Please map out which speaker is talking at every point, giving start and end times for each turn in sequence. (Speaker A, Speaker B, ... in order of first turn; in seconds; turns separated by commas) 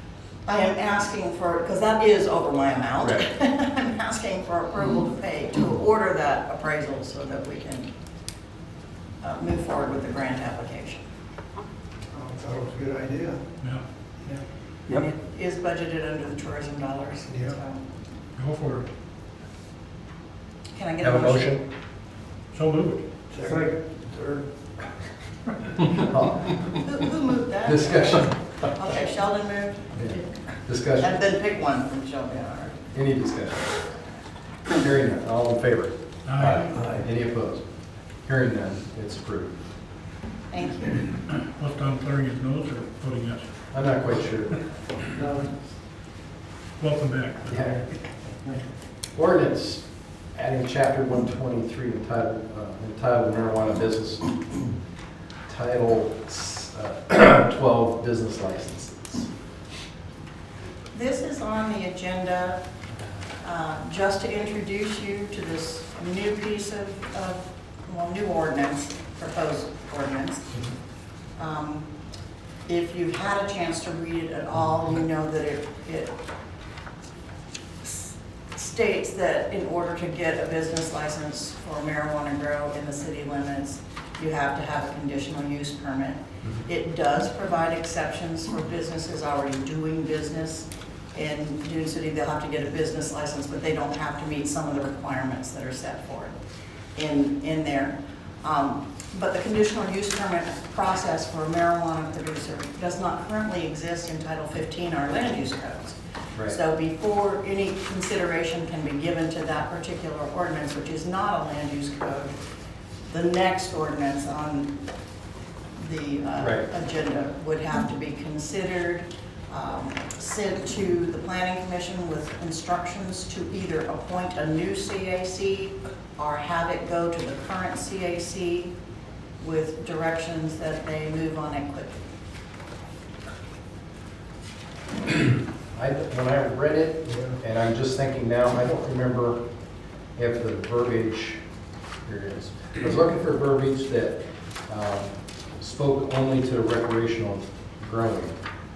Speaker A: 0.5-7.9, Speaker A: 9.2-11.0, Speaker B: 12.1-13.4, Speaker A: 14.9-17.8, Speaker B: 17.3-17.6, Speaker C: 18.4-18.9, Speaker A: 20.8-21.5, Speaker D: 21.0-21.6, Speaker C: 22.5-23.0, Speaker B: 23.3-24.4, Speaker D: 25.9-26.7, Speaker A: 26.7-30.3, Speaker D: 27.6-28.8, Speaker D: 30.0-31.2, Speaker A: 31.0-32.8, Speaker D: 32.9-33.7, Speaker D: 34.7-37.6, Speaker C: 36.3-36.7, Speaker D: 38.3-39.6, Speaker A: 40.5-41.1, Speaker C: 41.3-43.7, Speaker D: 43.7-44.6, Speaker B: 45.1-45.5, Speaker C: 46.8-48.0, Speaker D: 47.5-47.8, Speaker D: 49.1-49.8, Speaker D: 50.4-54.3, Speaker D: 55.5-59.3, Speaker A: 60.9-62.6, Speaker A: 63.4-70.5, Speaker A: 71.4-71.9, Speaker A: 72.7-76.2, Speaker A: 77.8-96.3, Speaker A: 97.0-112.3, Speaker A: 113.1-114.7, Speaker A: 115.8-128.7, Speaker D: 116.4-116.7, Speaker A: 129.4-132.0, Speaker D: 135.7-139.4, Speaker D: 140.2-141.4, Speaker D: 142.1-148.4